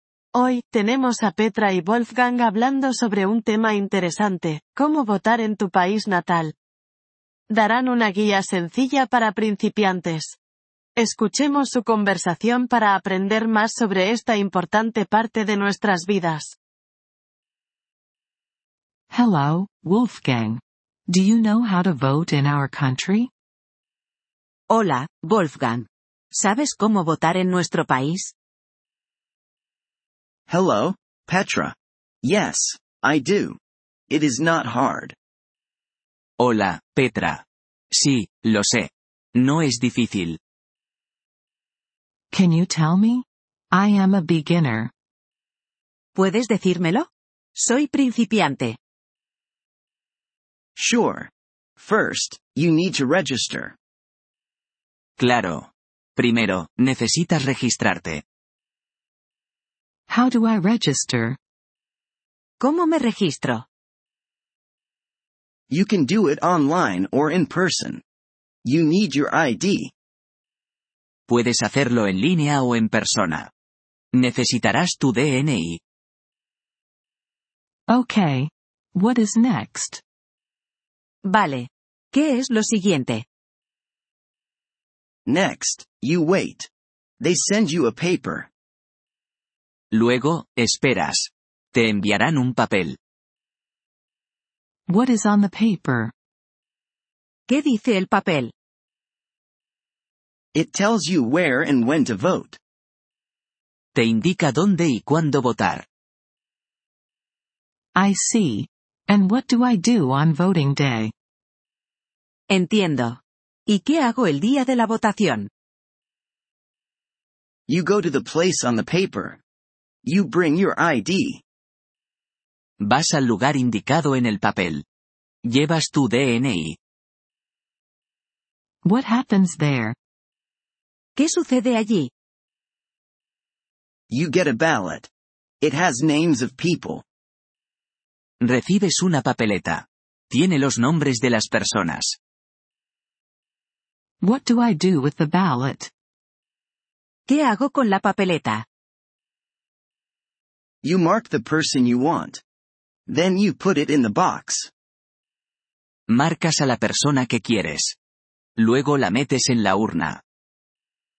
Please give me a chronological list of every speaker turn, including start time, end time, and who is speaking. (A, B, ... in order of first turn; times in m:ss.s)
0:00.3-0:06.5 A
0:07.5-0:10.4 A
0:11.0-0:16.6 A
0:19.1-0:23.3 B
0:24.7-0:28.3 C
0:30.5-0:35.2 D
0:36.4-0:40.4 E
0:42.3-0:44.9 B
0:46.1-0:48.8 C
0:50.8-0:53.8 D
0:55.2-0:58.2 E
1:00.1-1:01.4 B
1:02.6-1:03.6 C
1:05.7-1:08.0 D
1:08.6-1:09.9 D
1:11.3-1:13.5 E
1:14.1-1:15.8 E
1:17.9-1:20.0 B
1:21.2-1:23.2 C
1:25.2-1:26.7 D
1:27.2-1:28.5 D
1:29.9-1:33.0 E
1:34.9-1:36.1 B
1:37.5-1:38.5 C
1:40.5-1:42.6 D
1:43.9-1:45.8 E
1:47.9-1:51.1 B
1:52.5-1:55.5 C
1:57.7-1:59.4 D
2:00.0-2:01.4 D
2:02.8-2:04.8 E
2:05.4-2:06.8 E
2:08.8-2:10.0 B
2:11.2-2:12.1 C
2:14.1-2:15.1 D
2:15.6-2:17.0 D
2:18.4-2:22.2 E
2:24.2-2:25.9 B
2:27.3-2:28.6 C
2:30.8-2:32.4 D
2:33.1-2:34.7 D
2:36.1-2:38.0 E
2:38.6-2:40.2 E